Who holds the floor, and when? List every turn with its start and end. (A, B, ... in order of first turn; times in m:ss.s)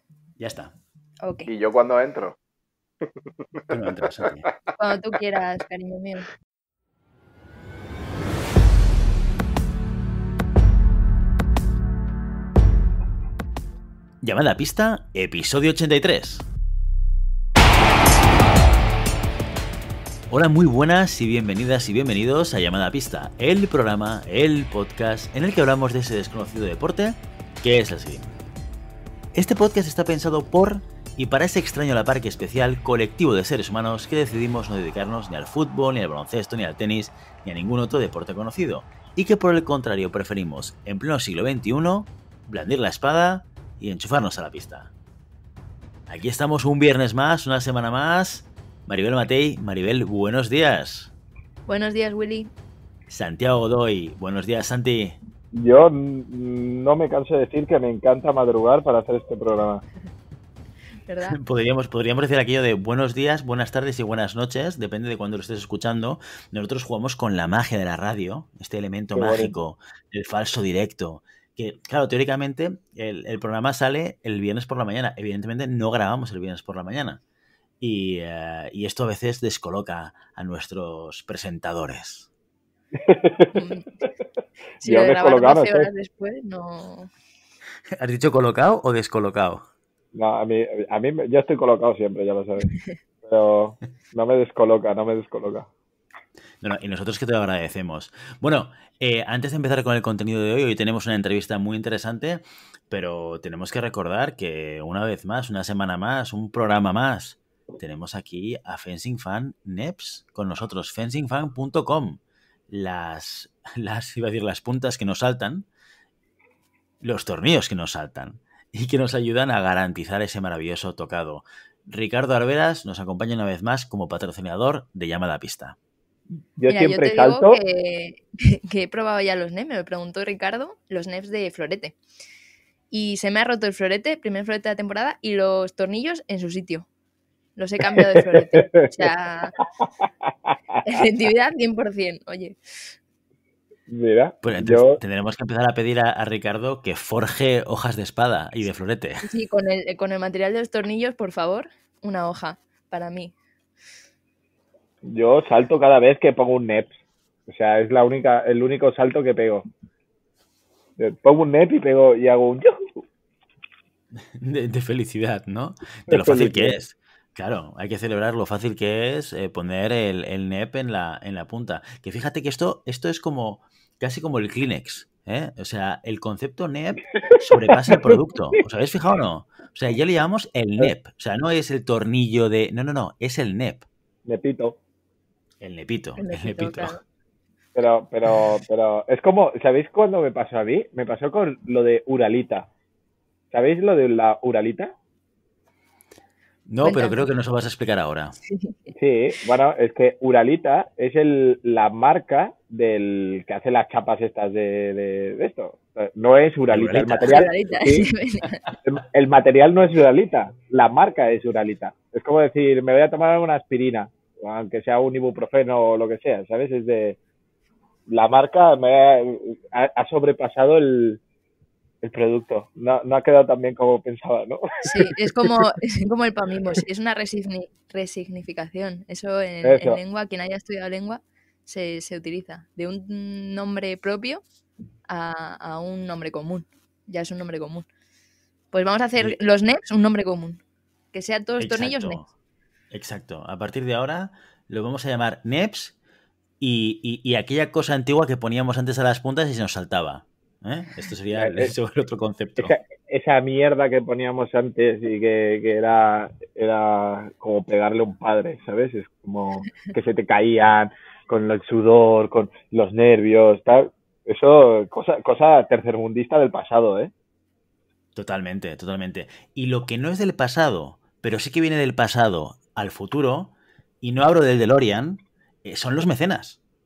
0:00.4-0:00.7 A
0:01.2-0:01.5 B
0:01.5-0:02.4 C
0:03.0-0:03.6 C
0:03.7-0:04.5 A
0:04.8-0:06.3 B
0:14.2-0:16.5 A
0:20.3-0:28.4 A
0:29.3-0:44.9 A
0:46.1-0:51.1 A
0:51.7-0:52.5 B
0:53.1-0:55.2 A
0:55.5-0:59.8 C
1:01.1-1:01.4 B
1:01.2-1:17.2 A
1:09.2-1:09.6 C
1:17.8-1:22.3 A
1:23.0-1:23.6 C
1:23.5-1:23.9 B
1:24.8-1:27.1 B
1:24.8-1:25.9 C
1:28.0-1:29.6 A
1:30.2-1:32.7 C
1:33.2-1:35.7 C
1:36.6-1:55.7 A
1:57.0-2:05.8 A
2:06.6-2:07.6 C
2:06.7-2:12.0 B
2:12.9-2:16.9 B
2:17.6-2:19.6 B
2:18.0-2:19.0 C
2:20.8-2:22.9 B
2:23.9-2:25.0 C
2:24.4-2:29.3 A
2:29.2-2:33.4 B
2:35.0-2:37.0 C
2:37.5-2:39.7 C
2:41.0-2:43.0 C
2:44.2-3:03.9 A
2:46.1-2:46.8 C
2:57.5-2:58.2 C
3:04.3-3:04.8 C
3:05.6-3:07.0 A
3:06.2-3:07.0 B
3:07.8-3:12.7 C
3:13.5-3:14.9 C
3:16.7-3:18.3 A
3:16.8-3:17.2 B
3:18.4-3:18.9 B
3:19.0-3:28.1 C
3:26.7-3:27.5 A
3:27.3-3:28.6 B
3:28.8-3:37.2 C
3:38.1-3:41.2 C
3:42.0-3:45.7 C
3:44.8-3:54.4 B
3:49.6-3:50.0 C
3:55.1-3:57.9 B
3:58.7-4:00.6 B
4:01.1-4:02.2 B
4:01.6-4:02.3 A
4:02.9-4:05.9 A
4:06.6-4:12.7 A
4:11.3-4:11.7 C
4:12.6-4:27.1 C
4:28.2-4:36.6 A